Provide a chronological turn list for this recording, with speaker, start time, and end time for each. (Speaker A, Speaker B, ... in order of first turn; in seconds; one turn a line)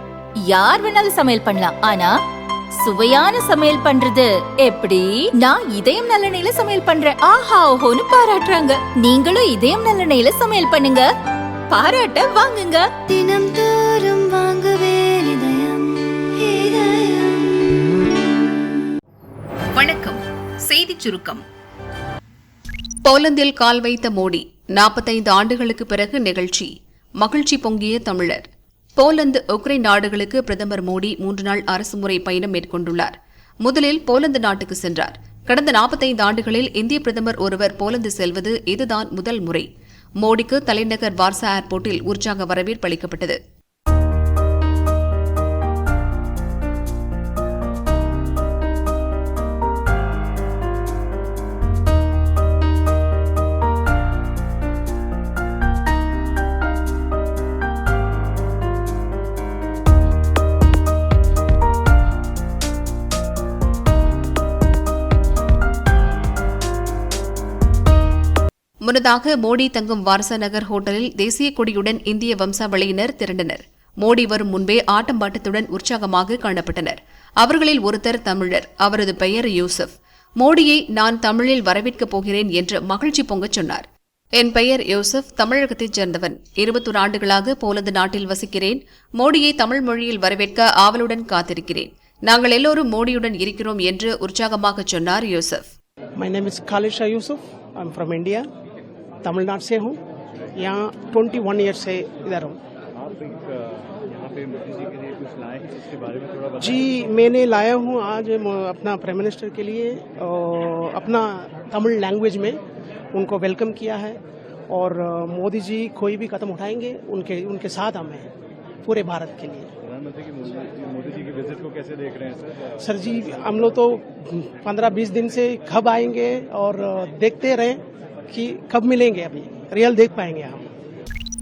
Speaker A: 0.4-2.2
Speaker A: 2.8-11.1
Speaker A: 11.7-13.0
Speaker B: 13.1-18.1
Speaker C: 19.8-21.4
Speaker C: 23.0-28.4
Speaker C: 29.0-39.7
Speaker C: 40.2-43.4
Speaker C: 68.8-83.8
Speaker C: 84.4-95.7
Speaker D: 96.2-98.5
Speaker D: 99.2-100.0
Speaker D: 100.6-102.6
Speaker E: 103.2-106.8
Speaker D: 106.6-112.6
Speaker D: 113.1-114.2
Speaker D: 114.7-118.2
Speaker D: 118.8-119.7
Speaker E: 120.2-122.4
Speaker D: 122.8-127.8
Speaker D: 128.3-130.6